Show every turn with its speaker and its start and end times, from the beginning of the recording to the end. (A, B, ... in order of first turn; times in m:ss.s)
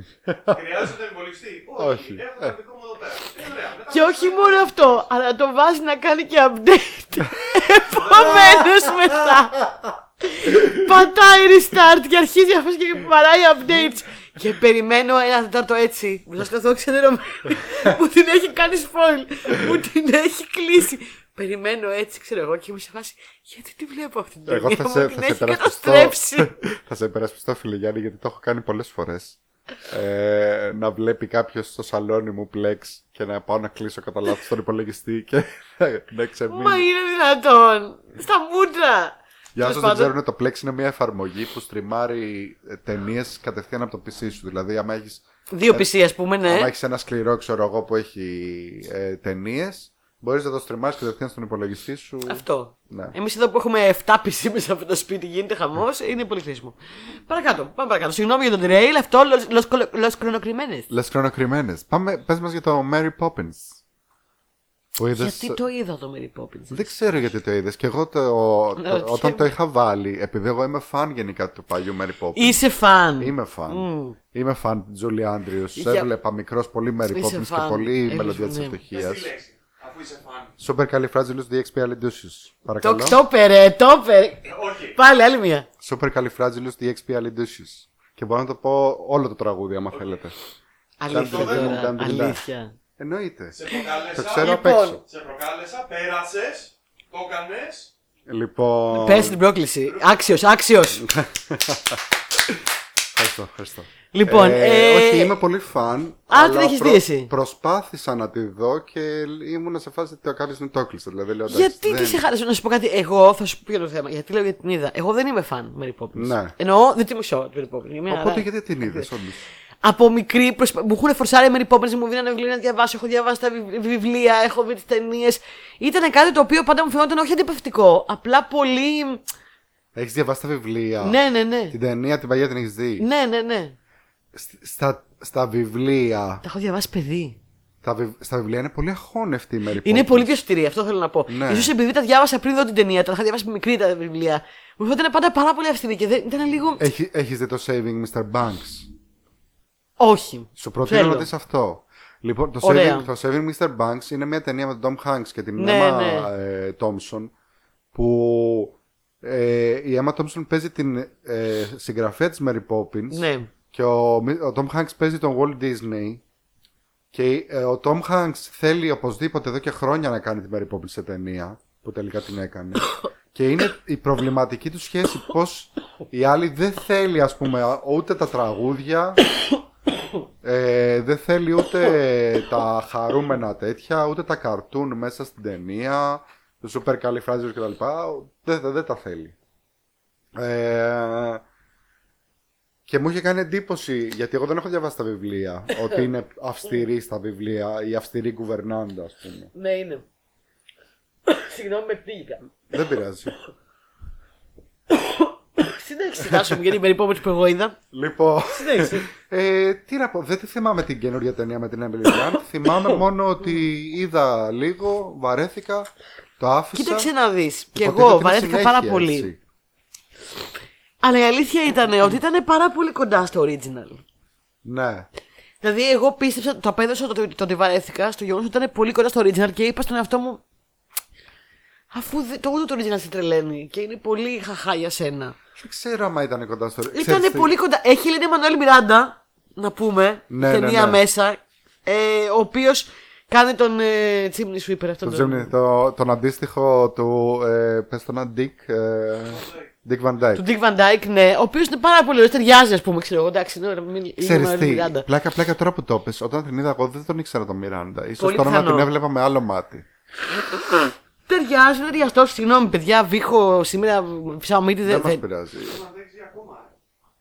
0:00.3-0:00.6 A
0:00.4-0:05.0 B
0:01.8-0:02.5 A
0:03.9-0:26.5 C
0:07.9-0:08.7 B
0:24.5-0:36.9 A
0:36.5-0:40.1 C
0:39.6-0:45.9 A
0:45.5-0:46.7 C
0:46.4-0:53.2 A
0:52.3-0:56.8 C
0:57.3-1:00.9 C
1:00.9-1:03.8 A
1:05.0-1:05.6 A
1:05.2-1:06.9 C
1:06.7-1:12.6 A
1:08.8-1:09.5 C
1:12.4-1:14.2 C
1:13.2-1:19.3 A
1:15.8-1:16.1 C
1:17.1-1:18.8 C
1:18.9-1:20.5 B
1:20.6-1:23.2 A
1:22.8-1:25.7 C
1:24.4-1:25.0 B
1:25.8-1:30.4 A
1:31.0-1:32.7 C
1:31.1-1:32.4 A
1:31.3-1:31.8 B
1:33.0-1:33.6 A
1:33.5-1:37.9 B
1:33.7-1:35.0 C
1:34.1-1:35.0 A
1:38.3-1:39.4 A
1:38.9-1:41.1 C
1:39.9-1:40.3 B
1:41.0-1:42.6 A
1:43.2-1:52.2 A
1:44.1-1:45.4 C
1:46.3-1:47.3 C
1:51.5-1:59.1 C
1:56.2-1:56.5 A
1:58.1-1:59.4 A
1:59.8-2:09.2 C
2:10.0-2:11.2 A
2:11.0-2:11.8 C
2:11.7-2:13.0 A
2:13.0-2:13.8 C
2:14.3-2:16.4 A
2:16.4-2:17.4 C
2:17.8-2:20.3 A
2:19.8-2:26.8 C
2:21.3-2:21.7 A
2:26.8-2:28.9 A
2:30.0-2:31.3 C
2:30.6-2:37.3 A
2:32.6-2:33.1 C
2:35.6-2:36.3 C
2:37.9-2:46.2 A
2:43.1-2:43.5 C
2:47.1-2:59.2 A
3:00.4-3:09.4 A
3:10.4-3:11.4 A
3:12.9-3:19.5 A
3:19.5-3:20.1 C
3:21.3-3:22.4 C
3:22.7-3:23.3 A
3:24.9-3:27.8 C
3:26.3-3:26.6 A
3:27.9-3:37.1 A
3:28.5-3:29.1 C
3:36.7-3:39.3 C
3:37.8-3:39.4 A
3:41.0-3:44.0 C
3:44.6-3:45.1 A
3:45.6-3:50.4 C
3:51.9-3:55.4 C
3:55.6-3:57.5 A
3:56.9-4:05.5 C
4:00.3-4:01.0 A
4:05.0-4:10.4 A
4:09.3-4:09.6 B
4:10.4-4:15.1 C
4:14.2-4:19.8 A
4:18.2-4:18.9 C
4:20.5-4:25.2 C
4:24.8-4:25.8 A
4:25.6-4:26.7 B